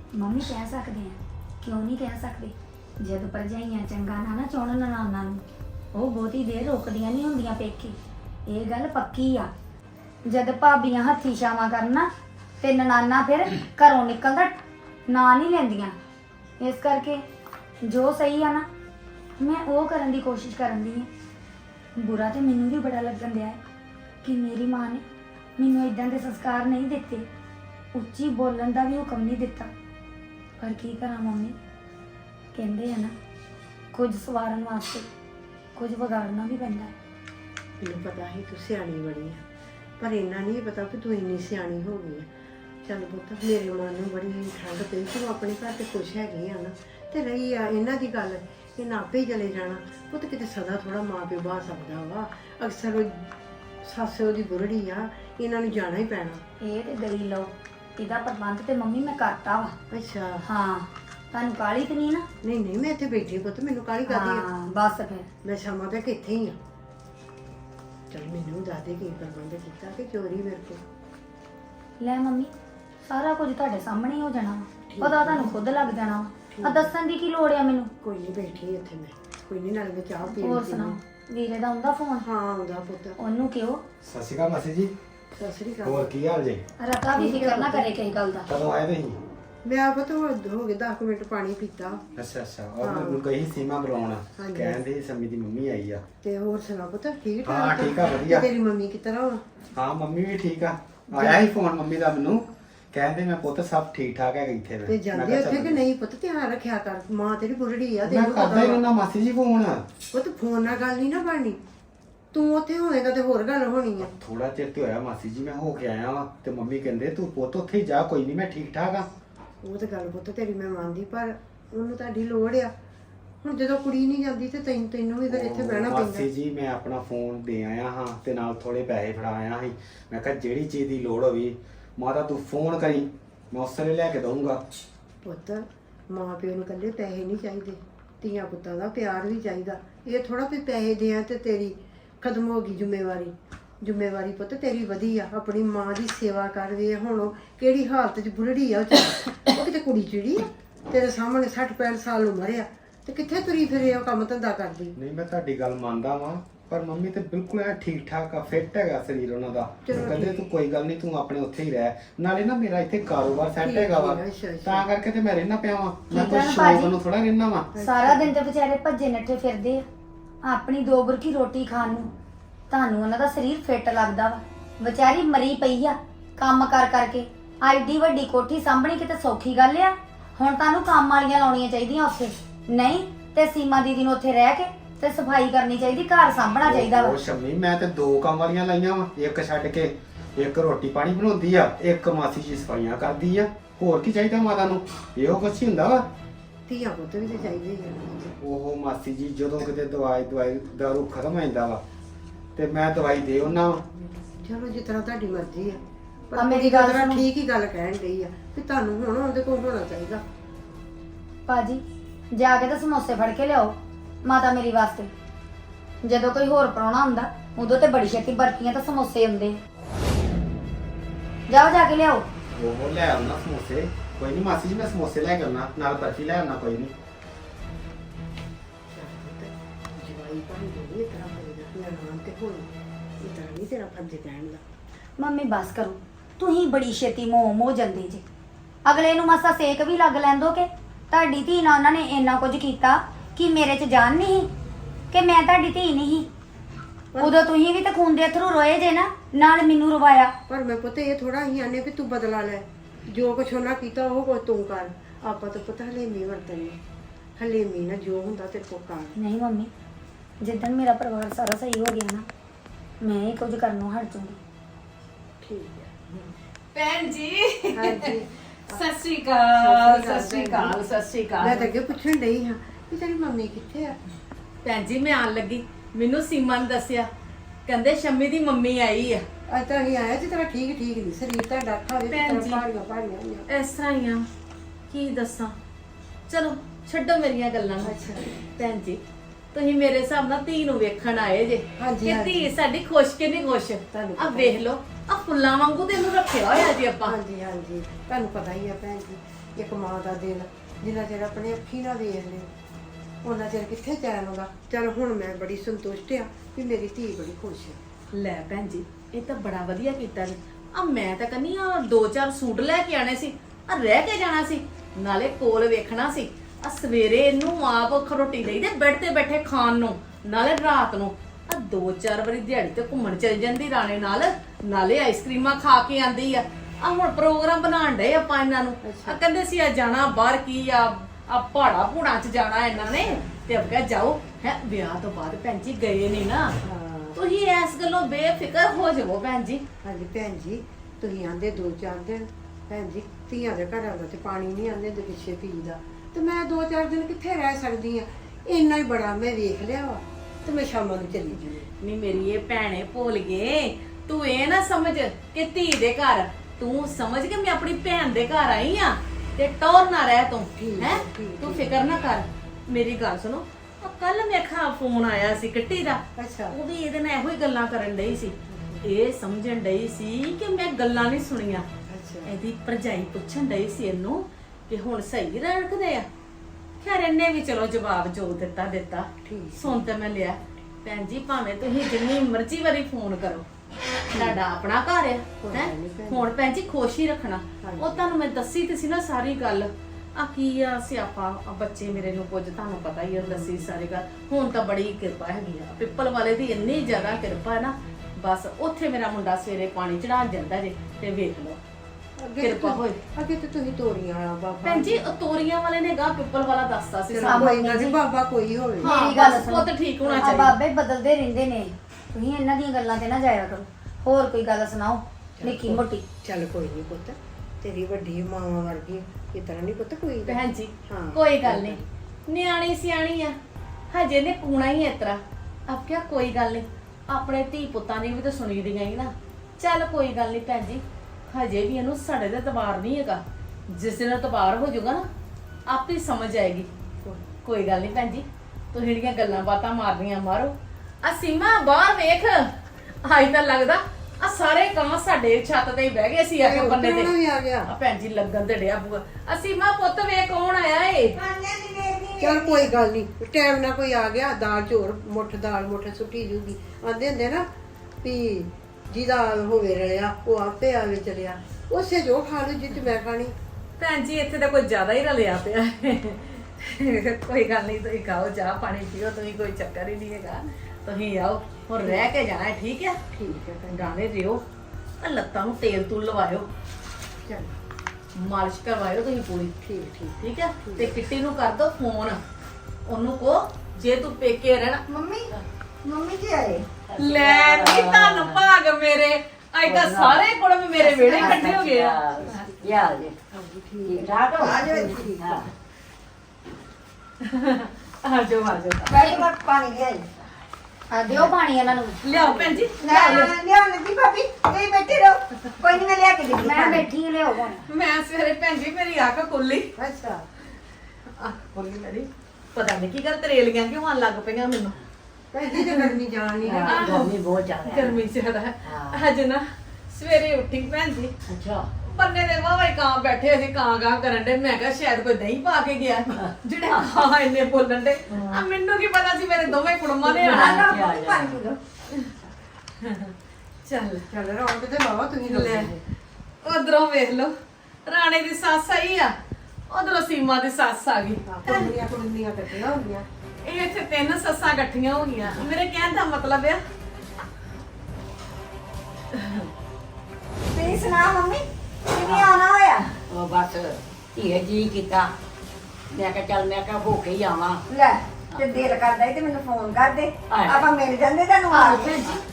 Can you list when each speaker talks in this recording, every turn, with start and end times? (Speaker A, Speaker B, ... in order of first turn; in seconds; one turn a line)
Speaker A: 0.1-9.5
Speaker A: 10.3-12.1
Speaker A: 12.6-14.5
Speaker A: 15.1-15.9
Speaker A: 16.6-17.2
Speaker A: 17.8-18.6
Speaker A: 19.4-21.1
Speaker A: 22.0-23.6
Speaker A: 24.2-25.0
Speaker A: 25.6-27.3
Speaker A: 27.9-29.7
Speaker A: 30.6-31.5
Speaker A: 32.5-33.1
Speaker A: 33.9-35.1
Speaker A: 35.7-36.9
Speaker B: 37.8-39.4
Speaker B: 40.0-42.3
Speaker B: 42.8-53.3
Speaker B: 53.8-56.4
Speaker A: 56.6-59.8
Speaker B: 59.9-60.4
Speaker A: 60.4-62.3
Speaker B: 62.4-64.5
Speaker A: 64.0-65.3
Speaker B: 65.4-66.5
Speaker B: 68.1-70.8
Speaker A: 72.0-72.5
Speaker A: 73.1-77.9
Speaker B: 74.9-75.5
Speaker B: 76.5-76.9
Speaker B: 78.0-81.0
Speaker A: 80.4-82.3
Speaker B: 82.2-83.2
Speaker A: 83.2-83.8
Speaker C: 84.0-84.9
Speaker B: 85.4-86.1
Speaker C: 85.8-86.6
Speaker A: 86.8-88.5
Speaker B: 87.1-87.9
Speaker C: 88.5-89.2
Speaker B: 89.6-92.0
Speaker C: 92.2-96.0
Speaker B: 92.8-93.2
Speaker B: 94.4-94.8
Speaker B: 96.2-99.4
Speaker C: 97.4-98.5
Speaker C: 99.8-105.8
Speaker B: 101.1-101.4
Speaker B: 104.9-108.8
Speaker C: 108.0-109.9
Speaker B: 110.1-111.6
Speaker B: 112.3-114.1
Speaker C: 114.0-119.1
Speaker B: 119.6-122.7
Speaker B: 123.4-126.2
Speaker C: 125.3-134.6
Speaker B: 135.2-154.9
Speaker C: 154.9-167.7
Speaker B: 159.8-160.5
Speaker B: 163.6-164.8
Speaker A: 166.1-167.0
Speaker B: 167.7-168.3
Speaker A: 167.8-169.8
Speaker A: 170.4-172.1
Speaker A: 172.7-187.2
Speaker C: 186.6-196.1
Speaker B: 196.7-198.3
Speaker C: 198.4-201.8
Speaker C: 202.6-203.8
Speaker B: 204.4-210.2
Speaker A: 206.3-207.2
Speaker A: 211.5-211.8
Speaker A: 212.3-215.1
Speaker A: 216.0-219.6
Speaker A: 221.5-222.2
Speaker C: 222.6-226.9
Speaker B: 228.9-232.7
Speaker B: 233.2-234.6
Speaker A: 235.2-238.2
Speaker A: 238.8-244.5
Speaker A: 245.1-246.3
Speaker A: 247.2-250.3
Speaker B: 250.5-256.8
Speaker B: 257.4-259.1
Speaker A: 259.1-259.7
Speaker A: 260.4-262.2
Speaker A: 263.0-264.4
Speaker B: 265.4-266.3
Speaker D: 266.7-268.2
Speaker B: 267.7-268.8
Speaker D: 268.7-271.7
Speaker B: 269.5-270.8
Speaker B: 271.4-274.0
Speaker D: 274.6-277.1
Speaker D: 277.7-279.2
Speaker B: 279.5-283.4
Speaker D: 282.1-282.6
Speaker D: 283.5-284.2
Speaker D: 284.9-285.5
Speaker D: 286.3-289.0
Speaker B: 287.8-288.4
Speaker D: 289.5-297.2
Speaker B: 291.8-292.5
Speaker B: 293.9-294.6
Speaker B: 297.0-302.5
Speaker B: 303.2-307.8
Speaker D: 308.1-336.6
Speaker B: 328.8-329.2
Speaker B: 332.8-333.3
Speaker B: 336.6-337.2
Speaker D: 337.1-339.6
Speaker B: 339.8-351.7
Speaker D: 351.8-371.7
Speaker B: 360.6-361.8
Speaker B: 366.1-366.6
Speaker B: 368.5-368.9
Speaker B: 371.9-372.3
Speaker D: 372.2-376.1
Speaker D: 376.8-383.4
Speaker B: 379.2-379.8
Speaker D: 384.1-401.6
Speaker B: 384.1-384.4
Speaker B: 385.4-386.3
Speaker B: 387.6-388.1
Speaker B: 393.2-393.7
Speaker B: 402.2-405.0
Speaker D: 402.4-403.0
Speaker D: 404.6-407.6
Speaker B: 407.1-409.3
Speaker A: 407.2-408.0
Speaker D: 408.8-410.6
Speaker A: 408.8-416.0
Speaker B: 415.4-421.8
Speaker D: 420.2-423.4
Speaker D: 423.9-435.1
Speaker D: 435.7-436.7
Speaker D: 437.4-442.5
Speaker D: 443.0-447.1
Speaker B: 446.4-447.7
Speaker D: 447.7-451.1
Speaker E: 451.1-452.7
Speaker B: 452.2-457.4
Speaker B: 458.0-463.3
Speaker D: 463.8-473.0
Speaker B: 471.8-472.1
Speaker B: 473.1-473.9
Speaker D: 473.7-474.4
Speaker D: 475.0-476.5
Speaker B: 477.2-477.6
Speaker D: 478.1-479.5
Speaker B: 479.6-481.0
Speaker D: 480.2-482.2
Speaker D: 482.9-484.8
Speaker E: 484.9-485.3
Speaker E: 485.8-486.6
Speaker F: 486.9-488.4
Speaker D: 487.0-492.5
Speaker F: 489.6-490.2
Speaker F: 490.8-493.1
Speaker B: 492.2-495.5
Speaker F: 493.9-495.5
Speaker E: 494.4-495.1
Speaker D: 497.2-498.9
Speaker E: 498.8-500.1
Speaker A: 500.9-502.0
Speaker D: 502.0-503.3
Speaker F: 502.2-502.6
Speaker E: 502.8-506.9
Speaker A: 506.4-507.7
Speaker D: 507.7-509.7
Speaker B: 509.8-510.3
Speaker D: 511.2-514.8
Speaker B: 515.3-517.0
Speaker D: 515.5-515.9
Speaker F: 516.4-518.0
Speaker D: 516.6-517.1
Speaker D: 517.6-521.1
Speaker F: 518.6-519.0
Speaker F: 521.3-521.7
Speaker D: 521.9-530.7
Speaker F: 526.1-526.9
Speaker B: 528.1-528.5
Speaker E: 530.1-531.6
Speaker F: 530.1-531.4
Speaker D: 532.8-533.1
Speaker D: 533.6-534.1
Speaker B: 534.1-535.8
Speaker D: 535.2-535.7
Speaker D: 536.4-537.3
Speaker D: 537.9-539.1
Speaker D: 539.7-541.7
Speaker B: 541.2-543.0
Speaker D: 543.4-546.6
Speaker D: 549.1-549.5
Speaker E: 550.5-552.9
Speaker F: 552.0-552.3
Speaker F: 553.1-555.1
Speaker F: 555.9-557.6
Speaker E: 557.7-562.2
Speaker F: 560.3-560.7
Speaker A: 561.5-562.2